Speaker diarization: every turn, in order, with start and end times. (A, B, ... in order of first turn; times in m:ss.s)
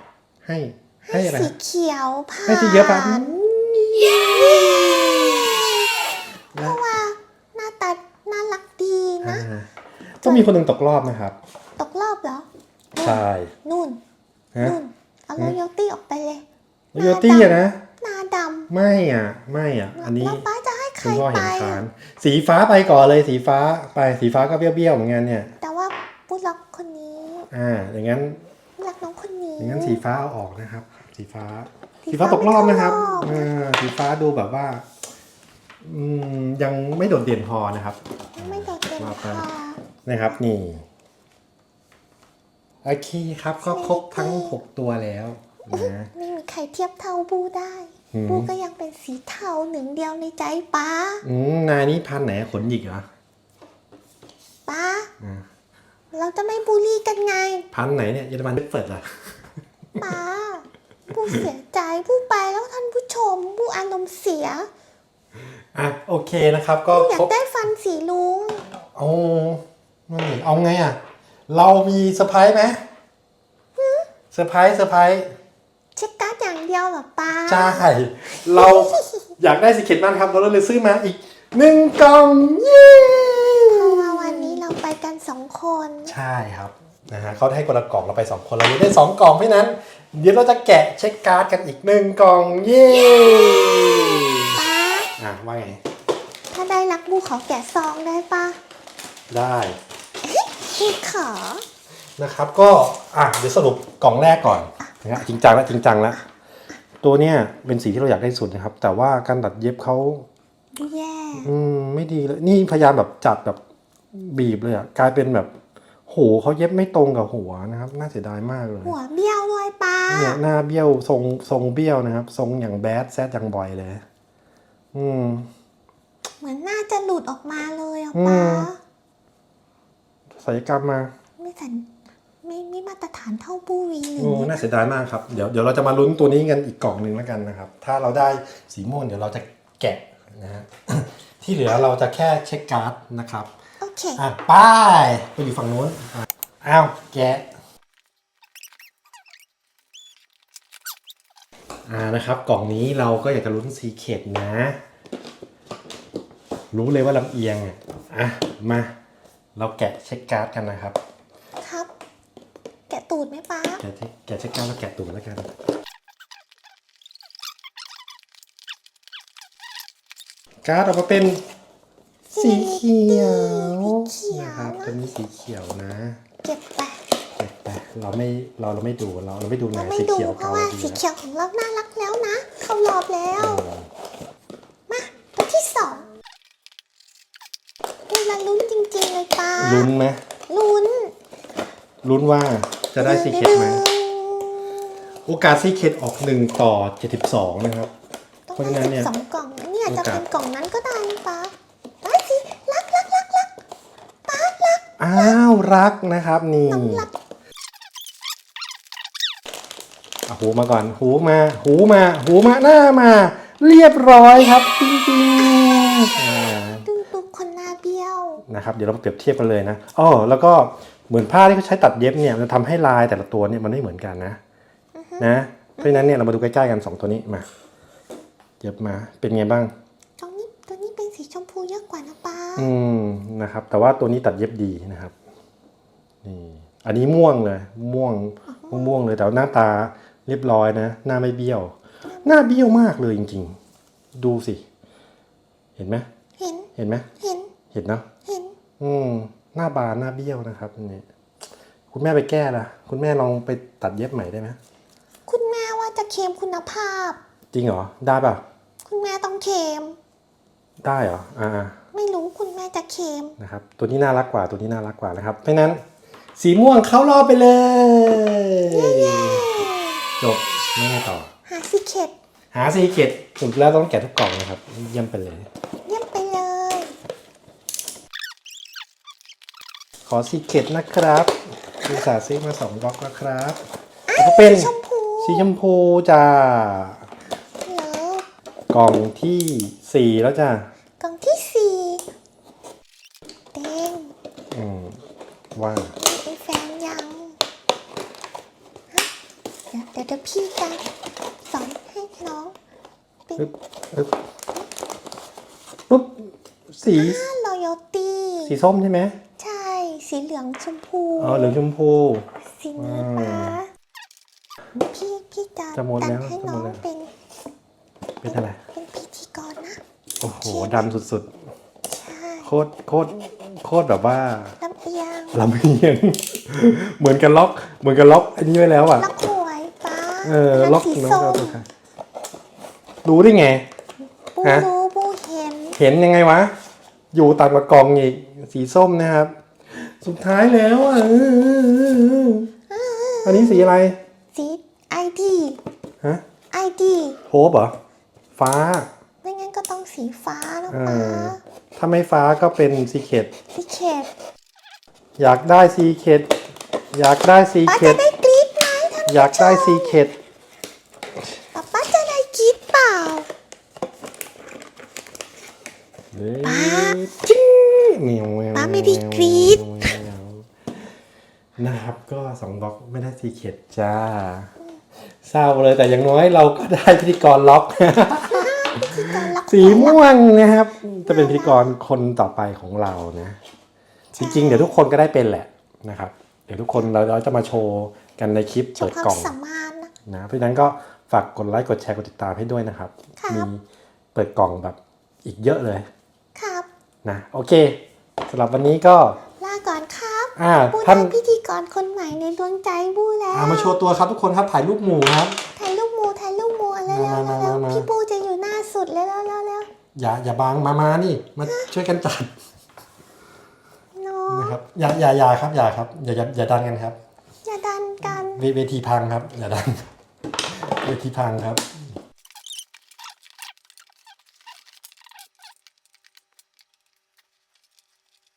0:00.4-0:01.5 A
0:01.1-0:03.3 B
0:02.5-0:05.6 A
0:04.0-0:05.9 B
0:06.5-0:06.8 A
0:06.6-0:09.4 B
0:09.2-0:09.7 A
0:10.2-0:11.4 A
0:10.2-0:10.5 B
0:11.8-0:14.0 B
0:13.0-0:13.5 A
0:14.6-0:16.4 B
0:16.9-0:17.8 A
0:17.0-0:18.7 B
0:18.7-0:20.4 A
0:20.0-0:21.8 B
0:21.0-0:25.5 A
0:25.6-0:27.5 B
0:27.5-0:28.4 A
0:28.8-0:30.0 B
0:29.6-0:34.8 A
0:32.0-0:33.5 B
0:35.8-0:39.4 A
0:38.4-0:39.8 B
0:40.1-0:40.8 A
0:42.8-0:46.1 A
0:43.6-0:44.6 B
0:45.7-0:51.2 B
0:48.1-0:48.5 A
0:51.2-0:53.1 A
0:54.7-0:55.1 B
0:55.2-0:55.4 A
0:56.1-0:57.7 B
0:57.7-0:59.4 A
1:00.0-1:04.7 B
1:05.7-1:07.3 A
1:06.9-1:08.6 B
1:09.0-1:11.0 A
1:11.5-1:12.8 A
1:13.8-1:14.1 B
1:14.3-1:15.3 A
1:16.0-1:17.9 B
1:17.5-1:24.6 A
1:18.5-1:19.3 B
1:23.7-1:26.1 B
1:26.1-1:34.6 A
1:33.0-1:35.1 B
1:35.2-1:35.8 A
1:36.5-1:38.6 B
1:39.3-1:39.8 A
1:40.2-1:41.6 B
1:42.2-1:46.2 A
1:47.0-1:50.3 A
1:50.7-1:51.5 B
1:51.4-1:53.6 A
1:54.1-1:55.5 A
1:56.1-1:59.0 A
1:58.8-2:00.4 B
2:00.1-2:04.0 A
2:04.9-2:05.5 A
2:06.4-2:08.8 B
2:08.1-2:08.7 A
2:10.4-2:11.1 A
2:11.4-2:11.9 B
2:12.4-2:14.6 B
2:14.2-2:23.5 A
2:23.8-2:24.2 B
2:24.2-2:27.5 A
2:31.9-2:34.8 A
2:36.7-2:38.9 A
2:39.6-2:41.0 A
2:41.6-2:41.9 B
2:42.9-2:43.8 B
2:43.8-2:45.5 A
2:50.6-2:51.4 A
2:52.3-2:56.2 A
2:52.3-2:55.0 B
2:56.4-2:57.0 B
2:57.4-3:01.0 A
2:59.7-3:03.6 B
3:03.4-3:03.9 A
3:04.9-3:06.1 B
3:08.1-3:09.9 B
3:09.6-3:10.2 A
3:10.5-3:11.1 B
3:12.0-3:13.8 A
3:13.0-3:14.9 B
3:15.2-3:17.9 A
3:18.5-3:23.6 B
3:18.6-3:19.1 A
3:19.9-3:20.2 A
3:24.3-3:25.4 B
3:25.0-3:27.1 A
3:26.7-3:27.1 B
3:30.3-3:36.9 A
3:35.4-3:38.4 B
3:38.5-3:44.4 A
3:45.0-3:46.2 B
3:45.2-3:47.5 A
3:48.6-3:49.7 A
3:50.2-3:52.7 B
3:52.6-3:55.1 A
3:56.2-4:03.6 A
3:58.5-3:58.9 B
4:02.1-4:02.6 B
4:04.1-4:04.6 A
4:05.8-4:06.1 A
4:06.4-4:07.5 B
4:06.8-4:07.1 A
4:07.7-4:08.0 A
4:08.2-4:08.6 B
4:08.8-4:11.0 A
4:11.9-4:14.6 A
4:15.3-4:17.2 B
4:17.5-4:18.4 A
4:18.8-4:20.0 B
4:20.8-4:21.8 A
4:21.9-4:23.4 B
4:23.4-4:25.8 A
4:26.4-4:29.5 A
4:28.7-4:30.0 B
4:30.2-4:31.3 A
4:31.5-4:32.1 B
4:32.5-4:35.5 A
4:35.9-4:36.9 B
4:40.1-4:43.6 A
4:44.1-4:45.5 B
4:44.2-4:44.7 A
4:45.2-4:47.1 A
4:47.6-4:48.2 B
4:48.7-4:50.7 A
4:51.0-4:52.0 B
4:53.5-4:54.1 B
4:54.5-4:55.0 A
4:55.6-4:56.0 A
4:56.0-4:57.4 B
4:59.7-5:00.8 B
5:01.4-5:02.6 B
5:03.4-5:04.1 A
5:05.9-5:07.2 A
5:06.9-5:08.6 B
5:08.5-5:09.2 A
5:09.4-5:11.6 B
5:11.2-5:12.2 A
5:12.6-5:13.6 B
5:12.8-5:13.6 A
5:14.8-5:17.1 B
5:15.8-5:16.8 A
5:18.2-5:18.6 A
5:18.2-5:19.8 B
5:20.2-5:21.3 A
5:20.4-5:20.9 B
5:21.9-5:22.5 B
5:22.4-5:24.6 A
5:24.6-5:25.4 B
5:25.3-5:29.1 A
5:28.9-5:31.6 B
5:30.2-5:31.6 A
5:33.0-5:33.6 A
5:34.4-5:35.8 B
5:35.8-5:36.5 A
5:37.1-5:42.5 A
5:42.7-5:43.8 B
5:43.2-5:44.0 A
5:44.3-5:45.6 B
5:46.5-5:47.2 B
5:47.3-5:47.8 A
5:48.4-5:48.9 A
5:49.2-5:51.4 B
5:50.7-5:53.3 A
5:53.5-5:54.1 B
5:55.2-5:56.4 A
5:56.9-5:58.0 A
5:57.6-6:00.0 B
5:59.1-6:00.1 A
6:01.5-6:03.3 B
6:06.1-6:10.5 A
6:06.4-6:07.0 B
6:08.5-6:09.9 B
6:11.6-6:14.5 A
6:15.2-6:23.4 A
6:18.3-6:20.0 B
6:21.1-6:21.7 B
6:24.1-6:29.3 A
6:24.2-6:24.8 B
6:28.8-6:29.9 B
6:30.1-6:33.6 A
6:33.2-6:33.5 B
6:34.1-6:35.9 A
6:36.4-6:36.7 B
6:37.0-6:39.2 A
6:39.4-6:43.8 B
6:40.4-6:41.1 A
6:43.3-6:45.4 A
6:45.6-6:49.7 B
6:46.9-6:47.9 A
6:49.9-6:52.3 A
6:51.4-6:51.7 B
6:53.9-6:54.6 B
6:54.3-6:57.0 A
6:57.4-6:58.4 B
6:58.2-6:59.9 A
7:00.5-7:01.8 A